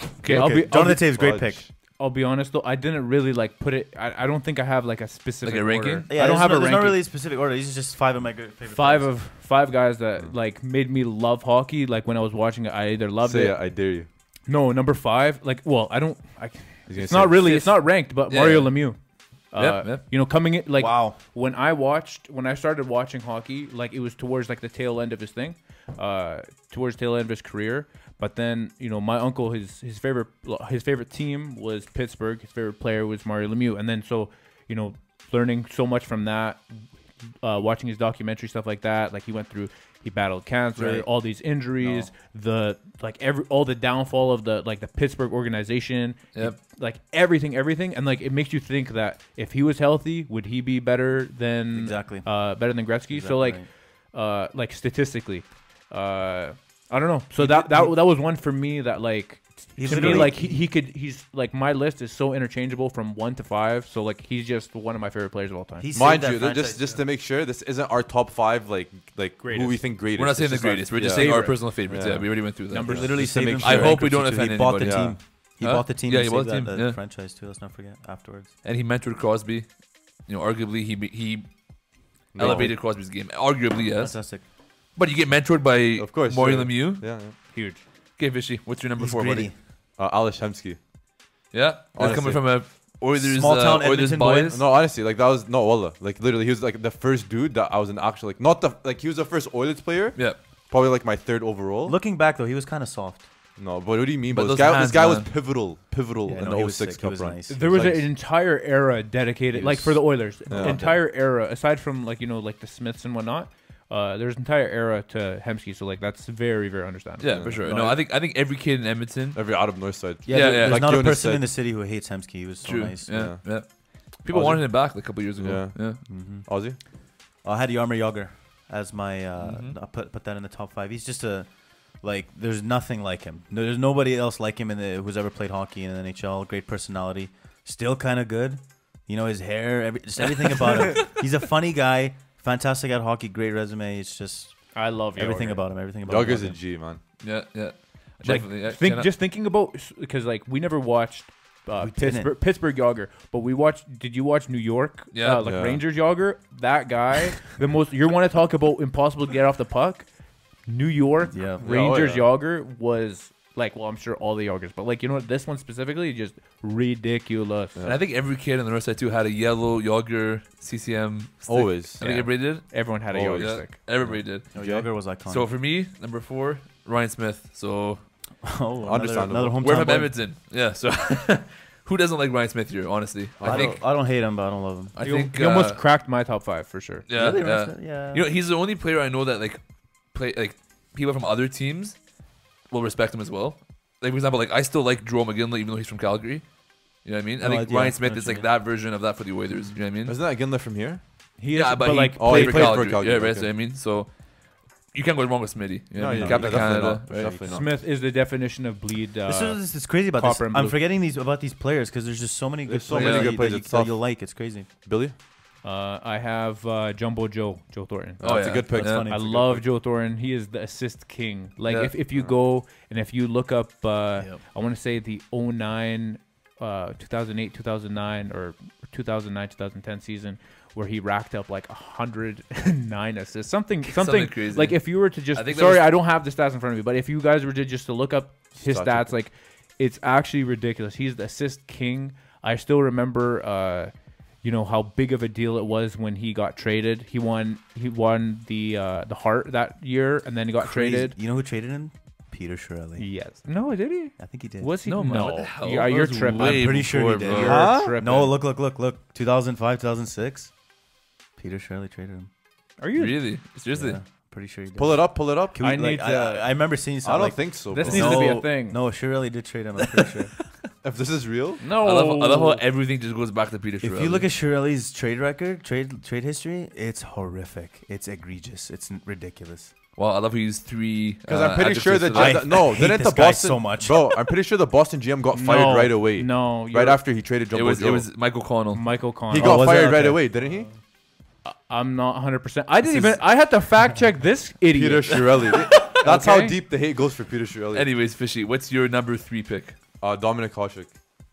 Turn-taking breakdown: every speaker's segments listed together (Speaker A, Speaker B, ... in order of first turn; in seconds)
Speaker A: 0.2-0.5, 5.4-6.1, 17.4-18.9, 19.5-20.0, 70.2-77.0, 78.6-79.7, 80.2-81.5, 82.3-84.2, 84.9-87.1, 88.2-89.5, 91.5-94.6, 104.3-105.3, 117.2-119.4, 120.3-121.0, 122.6-126.0, 129.4-129.7, 147.2-149.1, 155.1-155.5, 167.8-174.6, 175.2-178.0, 179.6-183.8, 184.9-185.8, 187.1-189.6, 190.1-192.0, 192.7-196.4, 197.0-200.2, 201.5-204.1, 204.9-207.4, 212.9-213.3, 218.2-219.1, 233.8-235.9, 254.8-257.7, 262.9-264.0, 271.7-274.3, 279.9-282.6, 287.5-288.9, 295.5-295.8, 297.7-299.8
Speaker B: 0.2-1.1, 2.0-7.0, 8.7-13.6, 14.5-19.0, 19.5-36.9, 37.4-65.9, 69.4-69.8, 70.9-71.6, 72.7-74.0, 87.5-87.8, 107.5-117.4, 144.7-145.6, 148.2-160.1, 160.7-167.8, 172.0-173.7, 185.0-187.0, 201.4-202.8, 207.4-210.8, 215.6-251.2, 253.0-256.7, 257.2-258.4, 262.8-263.2, 265.6-266.4, 267.7-268.8, 271.6-272.6, 285.3-287.0, 288.7-289.8, 291.4-296.6
Speaker C: 0.2-1.6, 6.1-9.1, 20.8-21.2, 40.8-41.1, 41.8-42.1, 51.7-53.7, 57.4-57.9, 59.8-60.6, 65.8-67.0, 72.8-78.5, 82.4-82.7, 83.9-84.4, 89.0-89.5, 93.2-94.6, 101.8-103.2, 106.2-108.0, 110.5-111.0, 117.6-118.0, 120.2-123.2, 126.0-126.5, 127.4-131.5, 132.0-146.6, 151.8-152.3, 161.3-161.7, 174.1-175.5, 178.4-180.2, 183.4-184.9, 187.1-188.2, 197.4-198.5, 206.1-207.5, 209.2-214.7, 218.7-219.6, 250.6-253.0, 254.2-254.7, 256.3-260.5, 261.4-262.3, 263.7-270.3, 273.8-279.7, 282.1-284.1, 289.3-290.3
Speaker D: 1.1-1.7, 13.2-14.1, 16.9-17.6, 59.9-60.3, 65.9-72.3, 74.8-75.1, 82.3-82.8, 86.0-87.3, 90.0-90.8, 91.9-92.4, 94.5-102.0, 103.6-108.0, 109.6-110.8, 117.2-117.7, 119.3-121.5, 123.1-123.5, 124.3-126.8, 146.1-147.0, 155.4-155.8, 161.6-162.2, 171.5-172.0, 173.1-173.7, 174.5-174.9, 178.8-179.6, 183.4-183.8, 200.0-201.0, 202.2-203.5, 205.9-207.7, 212.7-214.0, 214.8-215.1, 218.2-219.2, 238.6-239.1, 257.4-258.0, 264.8-265.7, 267.0-268.4, 270.8-271.6, 281.3-288.1, 289.3-290.7, 294.7-297.9, 300.0-300.9